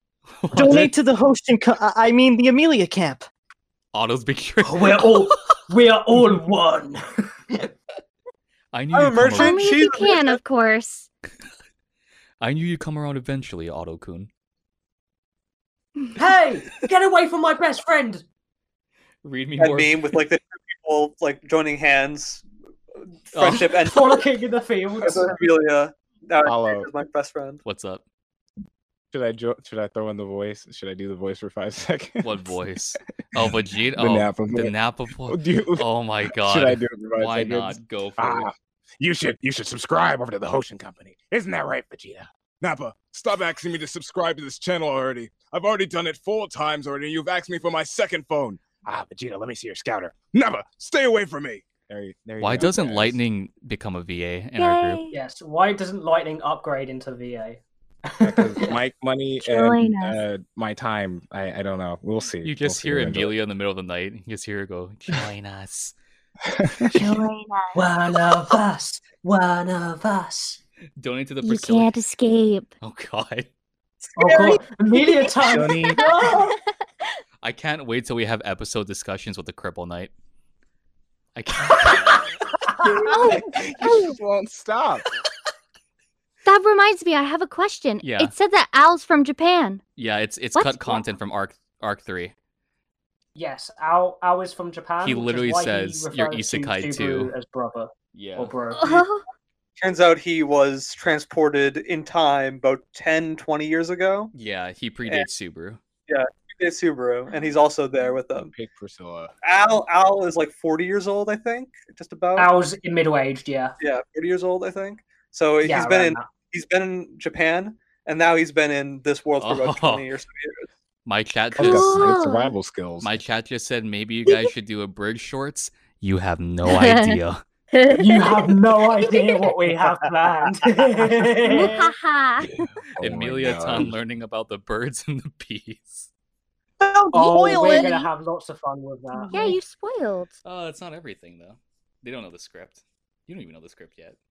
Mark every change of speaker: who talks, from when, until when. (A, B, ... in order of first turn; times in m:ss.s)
0:00.4-0:00.9 A
0:00.5-0:03.2 B
0:03.9-0:05.5 A
0:04.6-0:07.6 C
0:08.7-0:09.8 A
0:08.9-0:10.4 D
0:09.3-0:11.1 E
0:12.4-0:14.3 A
0:16.2-0:18.2 C
0:19.2-0:20.0 A
0:19.6-0:22.4 D
0:23.3-0:24.2 D
0:23.3-0:23.7 A
0:23.8-0:25.3 C
0:25.0-0:27.6 D
0:26.4-0:26.9 F
0:27.6-0:28.0 A
0:29.1-0:32.5 F
0:32.2-0:38.5 A
0:34.0-0:53.2 F
0:52.4-0:55.0 A
0:54.6-0:55.1 E
0:55.1-0:58.8 C
0:58.2-1:03.3 F
0:59.4-1:00.2 E
1:02.4-1:05.9 A
1:06.4-1:07.1 F
1:06.9-1:07.8 E
1:07.7-1:10.6 C
1:11.0-1:11.9 A
1:11.4-1:12.7 E
1:12.8-1:13.5 A
1:14.2-1:16.6 C
1:15.0-1:15.3 E
1:15.4-1:16.1 F
1:15.8-1:16.6 E
1:17.4-1:20.1 A
1:21.4-1:22.3 A
1:22.8-1:25.1 F
1:23.0-1:24.2 E
1:26.4-1:29.8 E
1:28.0-1:28.3 A
1:30.0-1:32.3 A
1:30.6-1:31.0 E
1:33.3-1:39.0 C
1:35.0-1:37.3 A
1:38.1-1:38.5 A
1:38.7-1:39.2 E
1:39.8-1:44.3 D
1:44.3-1:45.8 A
1:46.1-1:48.5 D
1:48.4-1:49.3 F
1:49.4-1:52.5 D
1:52.4-1:53.7 C
1:53.8-2:00.7 D
1:55.6-1:56.3 C
1:59.4-2:00.0 A
2:01.0-2:02.2 A
2:01.6-2:03.1 F
2:01.6-2:02.5 E
2:03.0-2:07.4 A
2:06.6-2:07.2 E
2:07.7-2:09.5 E
2:07.9-2:11.8 C
2:11.4-2:12.5 E
2:11.5-2:11.8 B
2:12.4-2:14.0 F
2:13.0-2:16.1 A
2:16.8-2:18.0 B
2:17.1-2:19.6 C
2:17.5-2:18.0 E
2:19.3-2:20.4 E
2:20.4-2:24.2 A